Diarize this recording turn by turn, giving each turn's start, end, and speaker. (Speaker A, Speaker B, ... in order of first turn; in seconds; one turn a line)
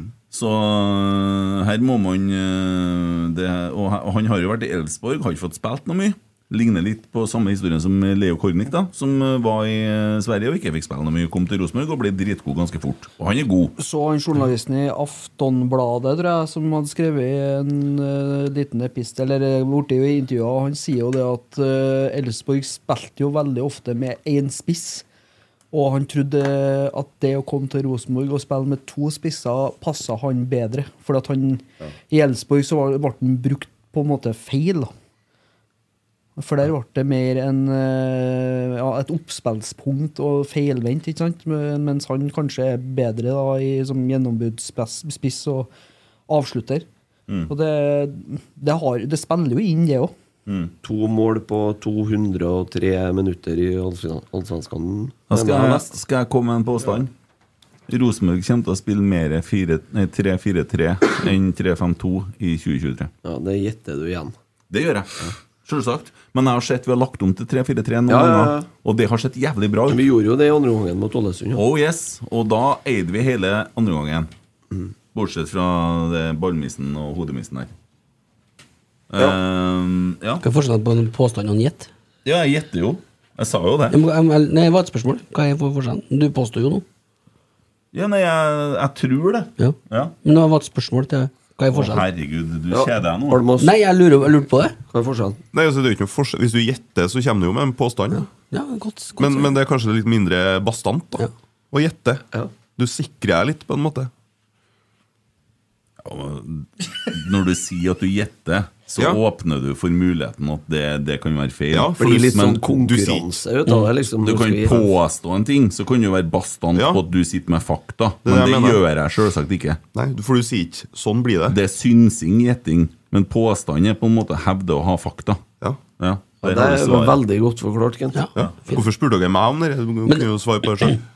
Speaker A: 0.3-13.7
Speaker B: 13.8-25.0
Speaker B: 25.7-34.9
Speaker B: 36.4-45.7
Speaker B: 46.3-46.9
Speaker B: 47.5-50.1
Speaker A: 50.5-50.7
Speaker C: 50.8-55.9
Speaker A: 55.3-57.1
Speaker A: 57.9-63.1
Speaker C: 63.2-64.3
Speaker A: 64.7-70.0
Speaker C: 68.1-68.7
Speaker C: 69.9-71.6
Speaker A: 71.5-74.3
Speaker A: 75.1-77.7
Speaker A: 79.1-80.4
Speaker D: 80.4-81.9
Speaker A: 82.2-84.0
Speaker D: 83.9-86.8
Speaker A: 87.9-90.1
Speaker D: 89.6-92.0
Speaker A: 91.7-93.4
Speaker C: 92.7-93.7
Speaker D: 93.6-94.8
Speaker C: 94.9-95.4
Speaker E: 95.5-98.2
Speaker D: 98.1-99.5
Speaker E: 99.2-102.2
Speaker E: 102.8-104.1
Speaker A: 106.0-112.6
Speaker E: 111.7-113.3
Speaker C: 112.0-114.9
Speaker A: 114.2-119.8
Speaker E: 116.7-117.0
Speaker E: 118.2-118.8
Speaker E: 119.9-121.6
Speaker A: 121.5-125.4
Speaker A: 126.0-127.2
Speaker C: 126.4-128.3
Speaker D: 128.1-128.8
Speaker E: 128.3-131.0